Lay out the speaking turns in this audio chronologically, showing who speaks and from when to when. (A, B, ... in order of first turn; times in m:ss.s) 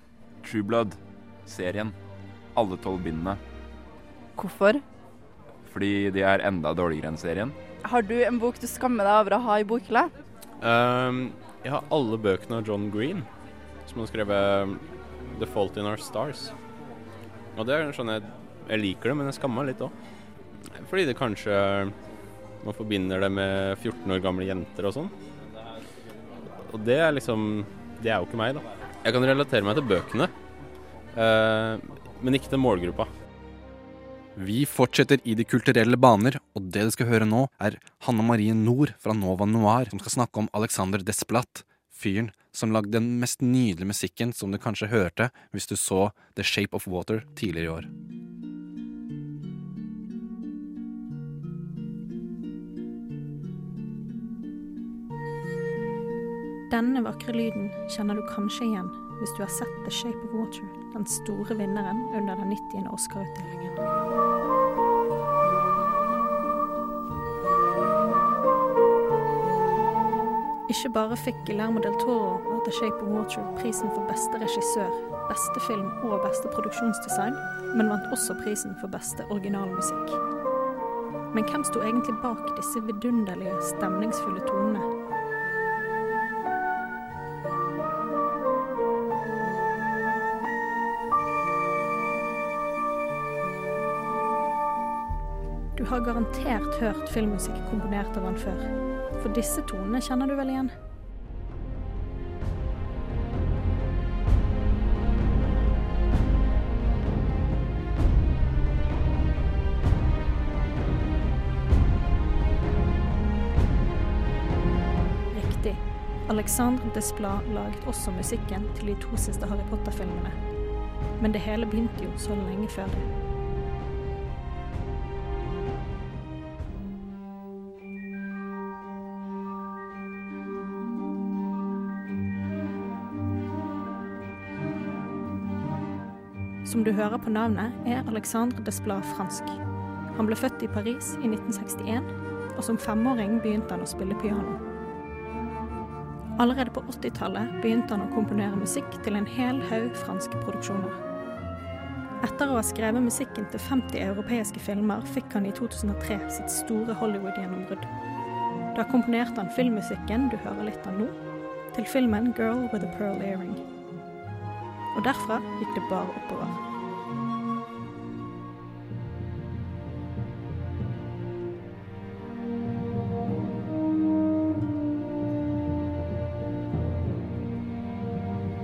0:00.5-0:00.9 A
0:01.5-0:01.8 A
0:02.6-0:03.4 A
0:04.4-0:04.8 B
0:05.7-0:07.5 A
0:07.8-0:10.1 B
0:10.6-0:13.3 C
0:13.9-0:16.5 C
0:17.6-0:19.9 C
0:20.8-0:21.9 C
0:22.6-0:25.1 C
0:26.7-0:30.3 C
0:31.2-0:33.1 C
0:34.4-0:47.9 D
0:56.7-1:03.8 E
1:10.7-1:20.2 E
1:21.3-1:24.9 E
1:35.8-1:40.7 E
1:55.3-2:00.4 E
2:01.2-2:03.1 E
2:16.6-2:19.6 E
2:20.2-2:24.6 E
2:26.4-2:31.0 E
2:32.2-2:37.9 E
2:38.7-2:41.2 E
2:41.7-2:43.6 E
2:44.9-2:46.6 E